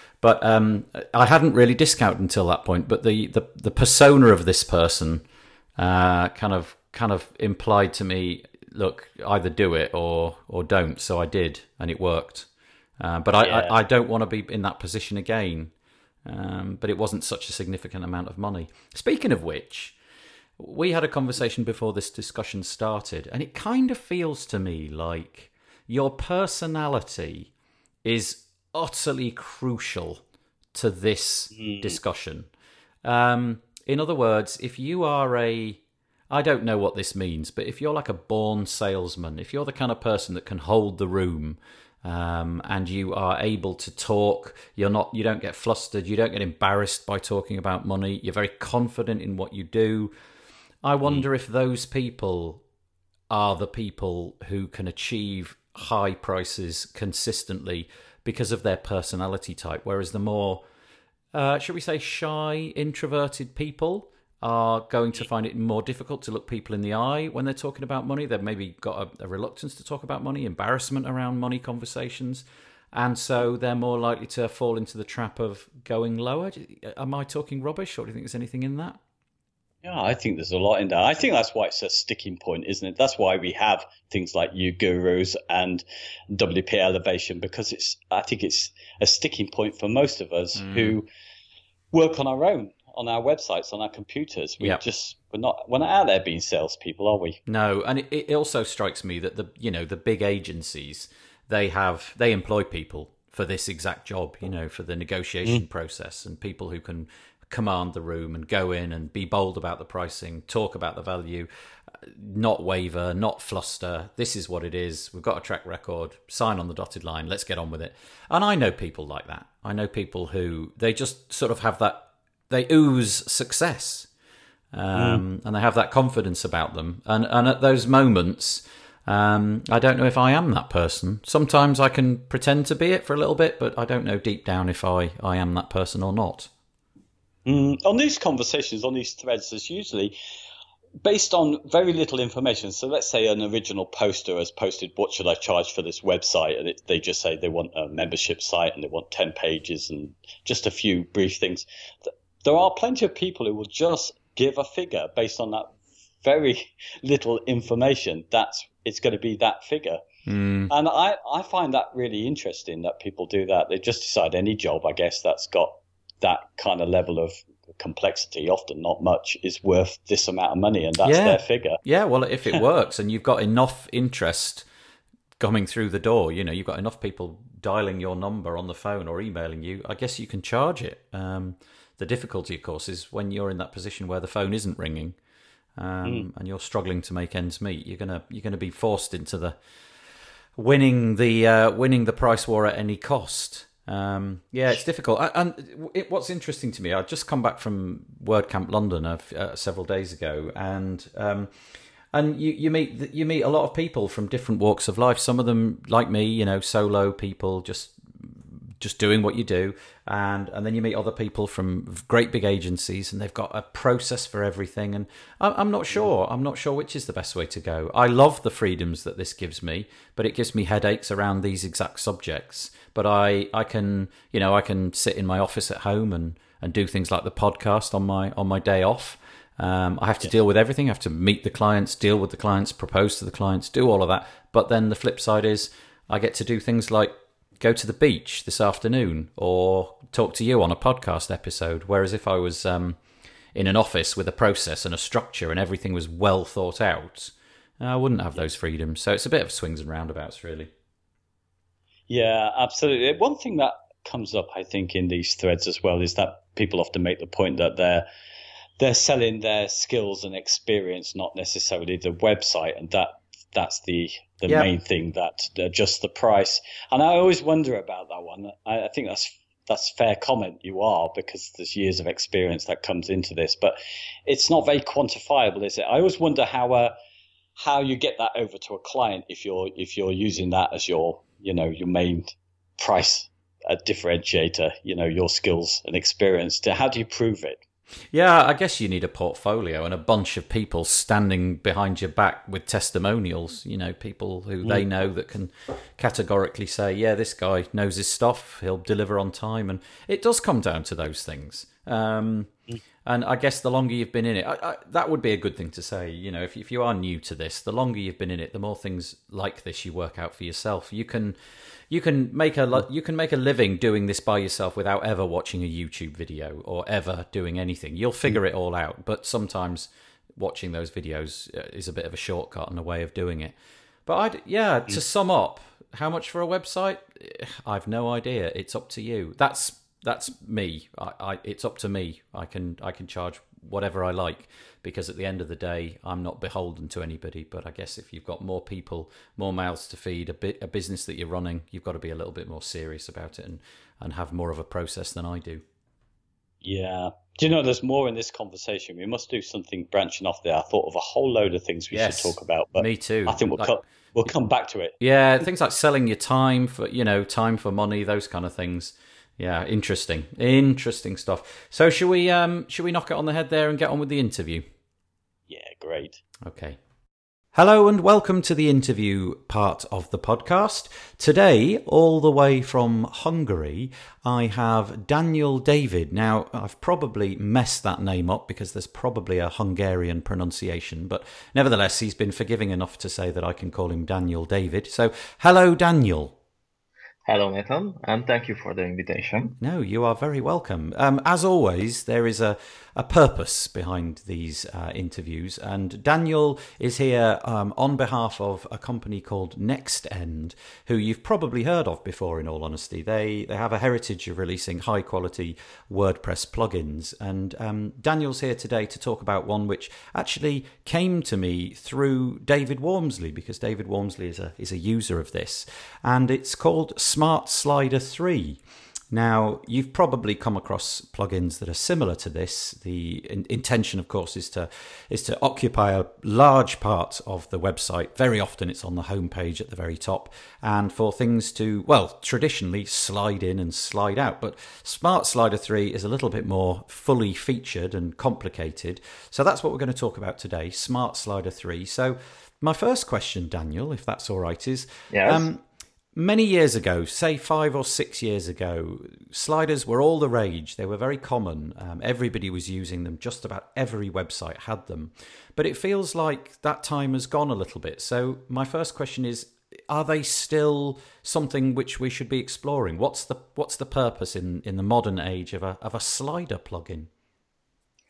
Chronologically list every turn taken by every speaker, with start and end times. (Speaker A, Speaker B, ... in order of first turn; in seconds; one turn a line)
Speaker A: 0.2-5.2
Speaker A: 5.8-12.5
Speaker A: 13.0-15.7
Speaker B: 13.4-13.8
Speaker A: 16.2-20.0
Speaker A: 20.6-27.5
Speaker A: 28.0-30.2
Speaker A: 30.7-32.5
Speaker B: 31.6-32.0
Speaker A: 33.0-50.1
Speaker A: 50.8-52.6
Speaker A: 53.3-60.6
Speaker A: 61.3-79.0
Speaker B: 79.8-91.1
Speaker A: 90.6-91.0
Speaker B: 91.9-97.4
Speaker A: 97.5-111.5
Speaker A: 112.0-124.1
Speaker A: 124.7-136.5
Speaker B: 125.0-125.2
Speaker B: 137.5-140.1
Speaker B: 141.0-160.0
Speaker A: 160.3-160.7
Speaker B: 160.7-171.8
Speaker A: 171.0-174.7
Speaker A: 175.4-185.2
Speaker A: 185.8-189.6
Speaker A: 190.6-201.5
Speaker A: 202.1-243.0
Speaker A: 243.6-250.7
Speaker B: 252.1-258.1
Speaker B: 258.8-276.9
Speaker B: 277.6-287.6
Speaker A: 288.1-302.5
Speaker A: 303.1-311.4
Speaker A: 311.9-323.6
Speaker A: 324.1-345.6
Speaker B: 346.6-355.0
Speaker A: 351.9-353.7
Speaker A: 355.0-364.7
Speaker B: 365.5-366.2
Speaker A: 366.4-366.8
Speaker A: 367.6-386.4
Speaker C: 387.3-389.6
Speaker A: 389.6-418.6
Speaker A: 419.1-445.6
Speaker C: 445.1-445.5
Speaker A: 446.1-467.1